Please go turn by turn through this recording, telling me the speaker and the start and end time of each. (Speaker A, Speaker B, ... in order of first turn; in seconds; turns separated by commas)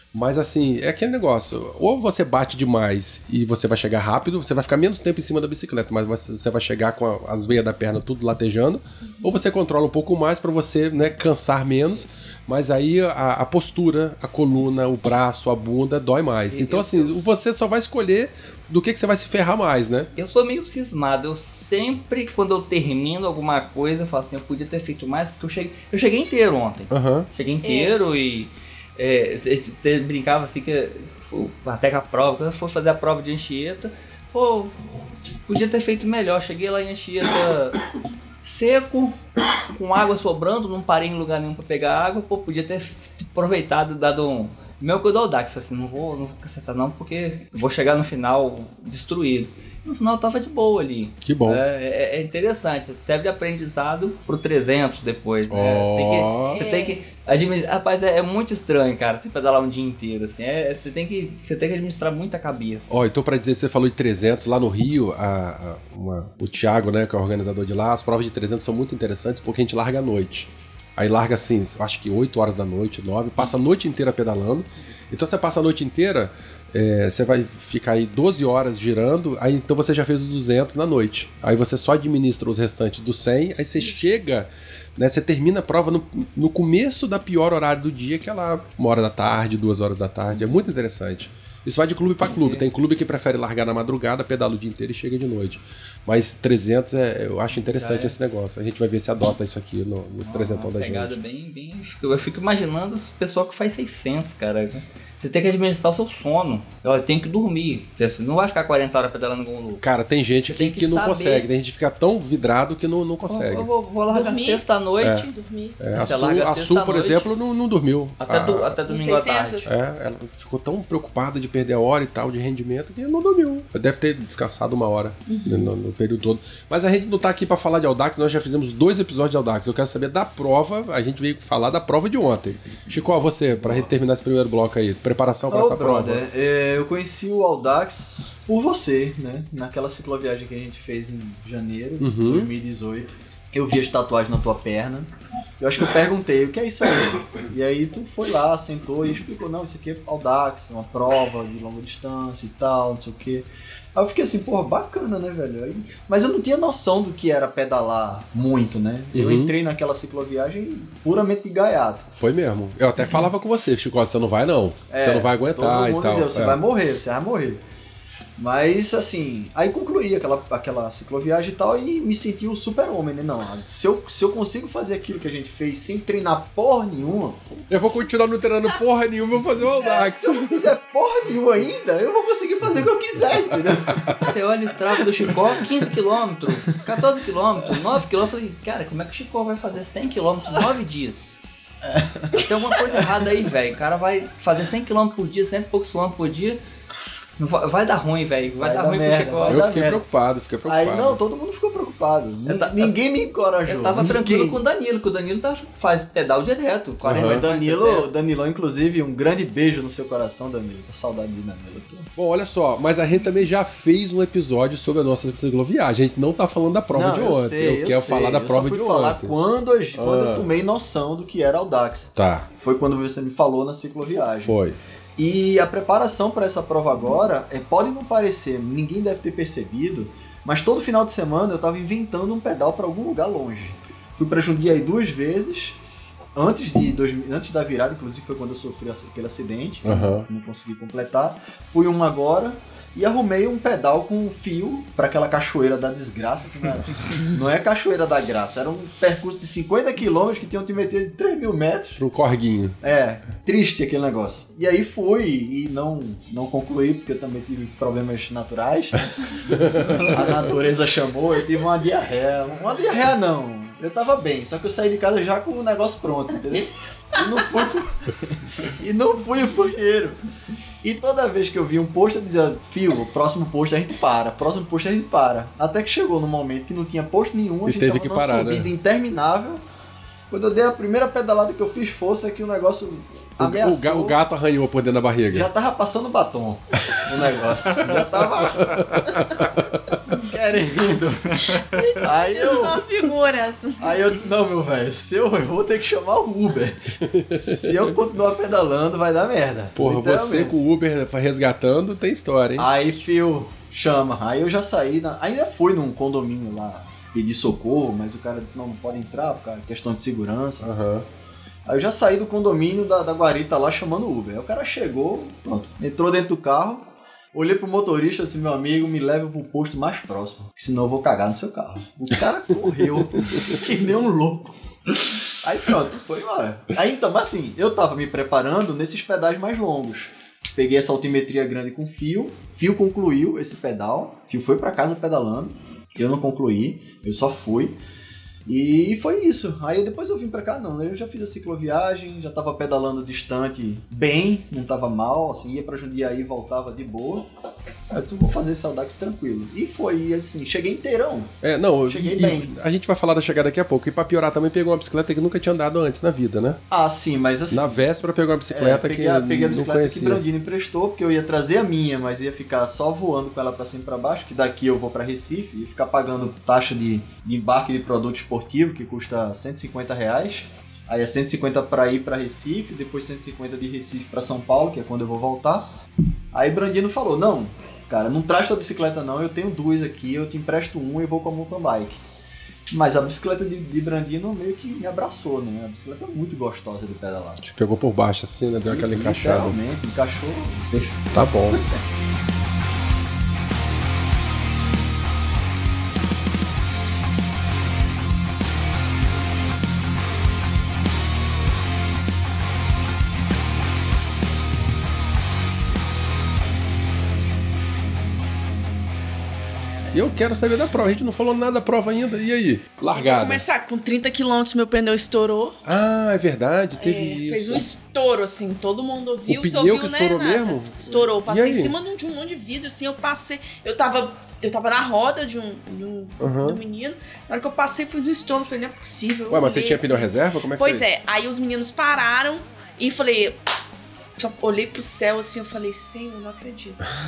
Speaker A: 0.1-20.1, Speaker B: 9.1-9.4, Speaker C: 16.5-17.2, Speaker C: 20.1-34.7, Speaker A: 26.9-27.3, Speaker B: 27.6-28.0, Speaker C: 35.5-37.8, Speaker C: 38.4-62.9, Speaker A: 51.2-51.6, Speaker A: 55.5-56.6, Speaker B: 56.5-57.0, Speaker A: 62.9-101.2, Speaker C: 90.3-90.6, Speaker C: 92.2-92.7, Speaker C: 97.6-98.2, Speaker C: 100.2-109.8, Speaker A: 109.8-113.7, Speaker C: 110.5-111.5, Speaker C: 113.3-115.3, Speaker B: 114.1-115.8, Speaker A: 115.0-115.3, Speaker A: 115.8-118.8, Speaker C: 115.9-117.3, Speaker C: 118.2-119.7, Speaker B: 118.9-119.7, Speaker A: 119.7-136.2, Speaker B: 125.3-125.7, Speaker D: 133.5-133.9, Speaker D: 135.5-162.1, Speaker A: 142.0-142.5, Speaker A: 159.1-159.6, Speaker A: 162.1-166.6, Speaker D: 164.9-167.6, Speaker D: 168.4-177.4, Speaker A: 177.7-180.7, Speaker D: 179.8-184.1, Speaker C: 184.2-191.4, Speaker D: 191.8-192.4, Speaker C: 192.3-196.6, Speaker C: 197.4-199.7, Speaker D: 198.5-200.1, Speaker A: 199.5-201.2, Speaker D: 200.7-204.6, Speaker C: 202.5-202.9, Speaker C: 203.7-208.1, Speaker A: 207.0-207.4, Speaker D: 207.1-212.1, Speaker A: 212.2-219.3, Speaker D: 216.9-224.5, Speaker A: 219.9-220.5, Speaker A: 222.2-222.5, Speaker A: 224.4-224.8, Speaker D: 225.2-235.8, Speaker D: 236.3-252.0, Speaker A: 239.8-240.2, Speaker A: 252.0-252.8, Speaker D: 252.8-270.2, Speaker A: 259.6-260.0, Speaker D: 270.8-279.6, Speaker A: 277.7-278.7, Speaker D: 280.3-284.2, Speaker A: 283.4-285.5, Speaker D: 285.3-288.9, Speaker A: 288.4-290.0, Speaker D: 290.1-292.9, Speaker B: 291.5-294.2, Speaker D: 293.8-296.8, Speaker A: 297.1-297.9, Speaker D: 297.3-300.6, Speaker A: 299.8-302.7, Speaker D: 302.6-310.7, Speaker A: 310.6-311.1, Speaker D: 311.7-324.6, Speaker D: 325.4-337.8, Speaker D: 338.5-347.3, Speaker D: 347.9-351.3, Speaker A: 351.4-356.6, Speaker D: 351.9-352.5, Speaker D: 356.7-357.9, Speaker A: 357.5-360.2, Speaker D: 358.5-375.7, Speaker D: 376.3-382.0, Speaker D: 382.7-387.4, Speaker A: 387.4-389.6, Speaker D: 388.7-391.8, Speaker A: 391.1-391.6, Speaker A: 409.9-413.4, Speaker B: 412.9-415.6, Speaker A: 415.7-417.7, Speaker B: 416.8-433.4, Speaker A: 419.3-421.7, Speaker A: 426.2-426.6, Speaker A: 429.3-430.9, Speaker B: 434.2-436.9